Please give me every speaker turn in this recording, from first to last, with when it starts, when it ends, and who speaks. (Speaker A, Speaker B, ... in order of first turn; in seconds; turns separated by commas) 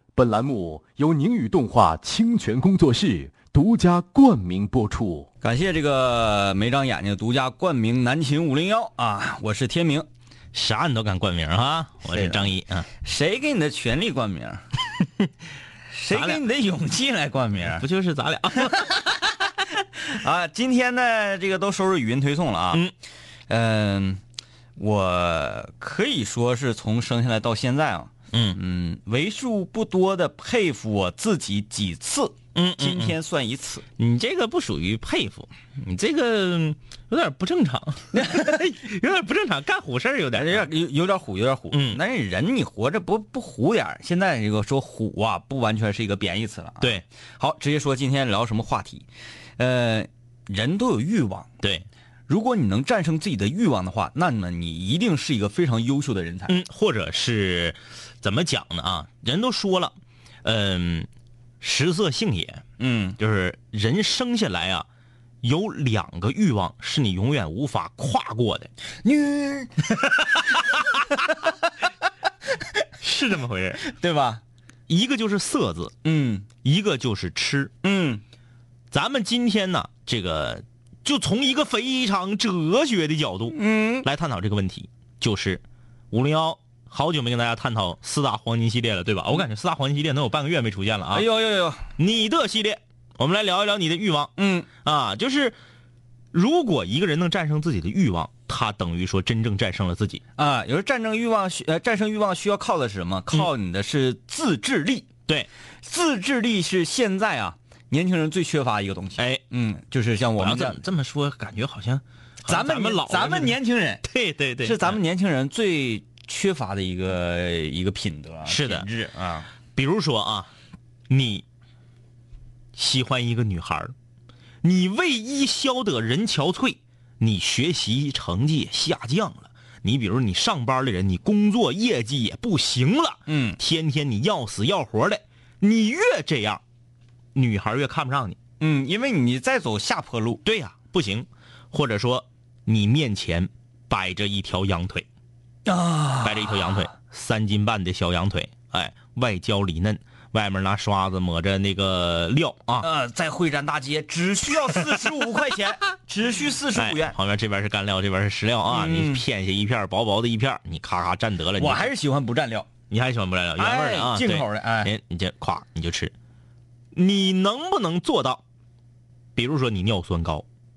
Speaker A: 0.2-5.3, Speaker B: 5.4-10.1, Speaker C: 10.5-12.9, Speaker B: 12.1-12.5, Speaker B: 13.0-14.6, Speaker B: 15.9-17.9, Speaker C: 16.1-16.4, Speaker C: 17.7-19.0, Speaker B: 20.1-22.8, Speaker B: 23.5-24.2, Speaker B: 24.8-33.8, Speaker C: 28.3-28.6, Speaker C: 32.5-33.2, Speaker C: 34.0-40.7, Speaker B: 38.1-38.7, Speaker B: 40.3-49.1, Speaker C: 41.7-42.0, Speaker B: 49.6-51.5, Speaker B: 52.3-56.6, Speaker C: 56.5-61.1, Speaker C: 61.6-62.6, Speaker B: 62.8-63.2, Speaker C: 63.2-64.9, Speaker C: 65.4-68.7, Speaker B: 69.0-69.9, Speaker C: 73.0-73.8, Speaker B: 73.8-74.4, Speaker C: 74.9-75.9, Speaker B: 76.0-76.5, Speaker C: 76.6-77.7, Speaker B: 77.8-78.2, Speaker C: 78.9-91.3, Speaker B: 83.5-84.1, Speaker B: 91.1-91.9, Speaker C: 92.0-95.6, Speaker B: 94.4-94.7, Speaker C: 96.3-100.2, Speaker B: 100.4-105.1, Speaker B: 105.8-110.8, Speaker C: 109.2-109.4, Speaker C: 110.4-115.0, Speaker B: 112.5-114.0, Speaker B: 114.6-119.5, Speaker C: 118.5-118.9, Speaker C: 119.8-120.5, Speaker C: 121.1-121.5, Speaker C: 122.8-123.9, Speaker C: 124.6-136.6, Speaker B: 133.3-133.6, Speaker C: 137.3-138.4, Speaker B: 138.6-140.4, Speaker C: 140.4-145.1, Speaker B: 145.7-146.9, Speaker C: 146.2-152.9, Speaker B: 152.8-157.2, Speaker C: 154.8-155.1, Speaker C: 156.7-161.9, Speaker B: 158.7-159.2, Speaker B: 161.6-162.7, Speaker C: 162.9-166.1, Speaker B: 163.6-164.9, Speaker C: 166.9-168.4, Speaker C: 169.4-170.4